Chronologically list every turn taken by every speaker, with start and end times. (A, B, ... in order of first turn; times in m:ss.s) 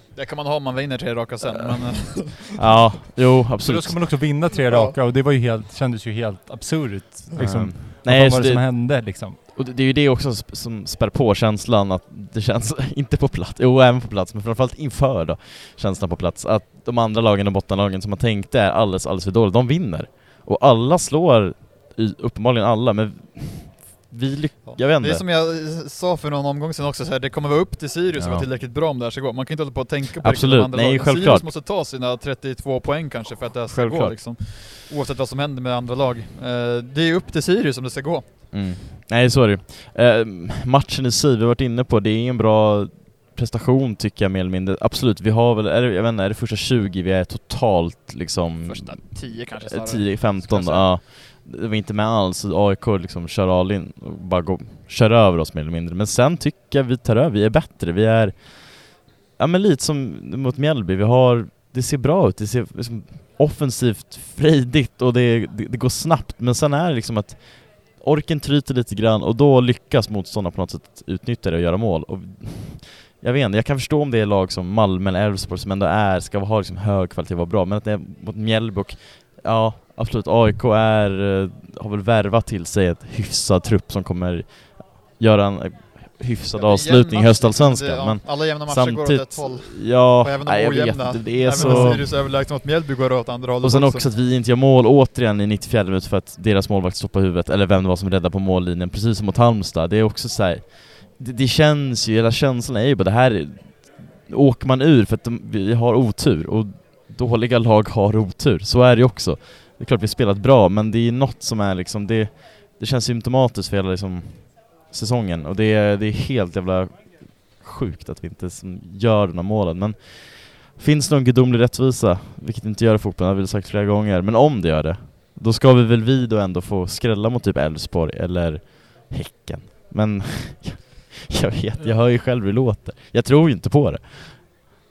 0:00.1-0:02.6 A
0:02.0-0:04.2 B
0:03.6-0:09.4 C
0:04.6-0:04.9 A
0:07.3-0:07.6 A
0:07.4-0:25.2 B
0:24.6-0:38.4 A
0:28.1-0:28.5 B
0:30.2-0:31.5 B
0:33.7-0:34.2 B
0:38.5-1:32.2 B
0:48.6-0:51.0 A
1:26.5-1:34.1 A
1:31.5-1:32.0 C
1:33.6-2:14.4 B